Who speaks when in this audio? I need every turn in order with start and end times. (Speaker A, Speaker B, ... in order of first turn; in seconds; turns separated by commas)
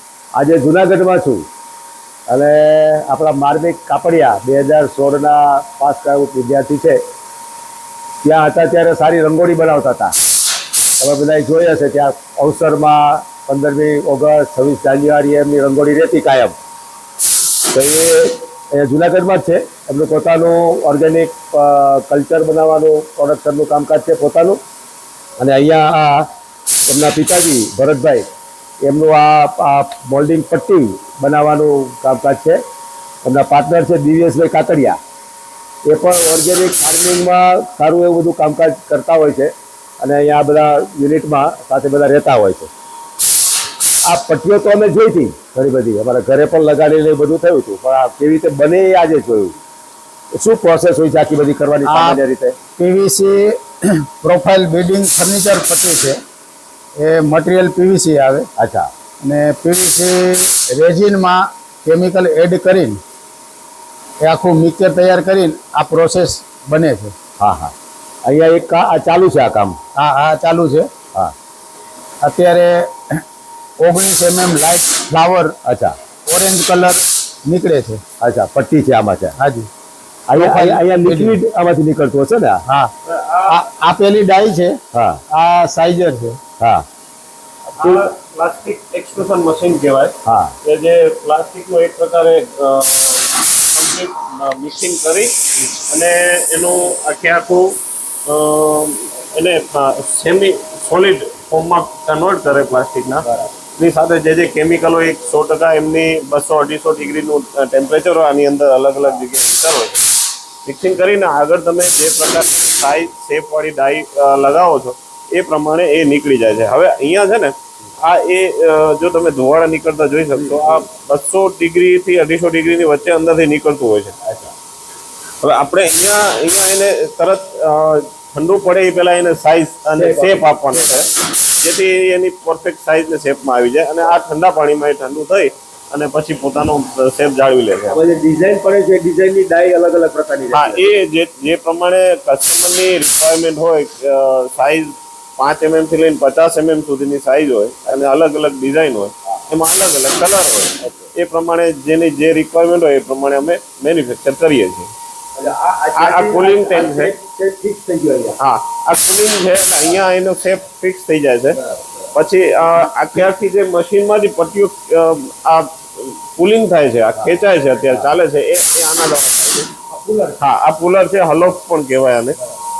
Speaker A: 0.3-1.4, Speaker A: 2.3-7.0, Speaker A: 8.2-10.1, Speaker A: 11.0-16.5, Speaker A: 17.7-24.6, Speaker A: 25.4-26.3, Speaker A: 26.9-28.3, Speaker A: 28.8-32.6, Speaker A: 33.2-35.0, Speaker A: 35.9-42.7, Speaker A: 44.0-49.5, Speaker A: 50.3-52.6, Speaker B: 51.8-52.2, Speaker B: 52.8-56.2, Speaker B: 57.0-58.5, Speaker A: 58.5-58.9, Speaker B: 59.2-63.0, Speaker B: 64.2-67.1, Speaker A: 67.4-67.7, Speaker A: 68.2-69.8, Speaker B: 69.9-70.9, Speaker B: 72.2-72.9, Speaker B: 73.8-75.6, Speaker A: 75.6-75.9, Speaker B: 76.3-78.0, Speaker A: 78.2-79.3, Speaker B: 79.4-79.7, Speaker A: 80.3-82.6, Speaker B: 80.3-81.3, Speaker C: 83.0-83.6, Speaker B: 83.5-86.4, Speaker A: 84.9-85.2, Speaker A: 86.6-86.8, Speaker C: 87.7-110.0, Speaker A: 90.2-90.5, Speaker C: 110.6-124.1, Speaker A: 120.3-120.8, Speaker A: 124.2-124.5, Speaker C: 125.4-131.1, Speaker A: 129.9-131.1, Speaker C: 131.6-138.0, Speaker A: 137.9-140.9, Speaker C: 140.5-154.9, Speaker A: 150.8-151.1, Speaker A: 155.4-158.4, Speaker C: 155.9-157.1, Speaker C: 158.4-161.6, Speaker A: 161.6-161.9, Speaker C: 162.1-169.7, Speaker A: 167.1-168.1, Speaker A: 169.9-170.4, Speaker C: 170.4-172.4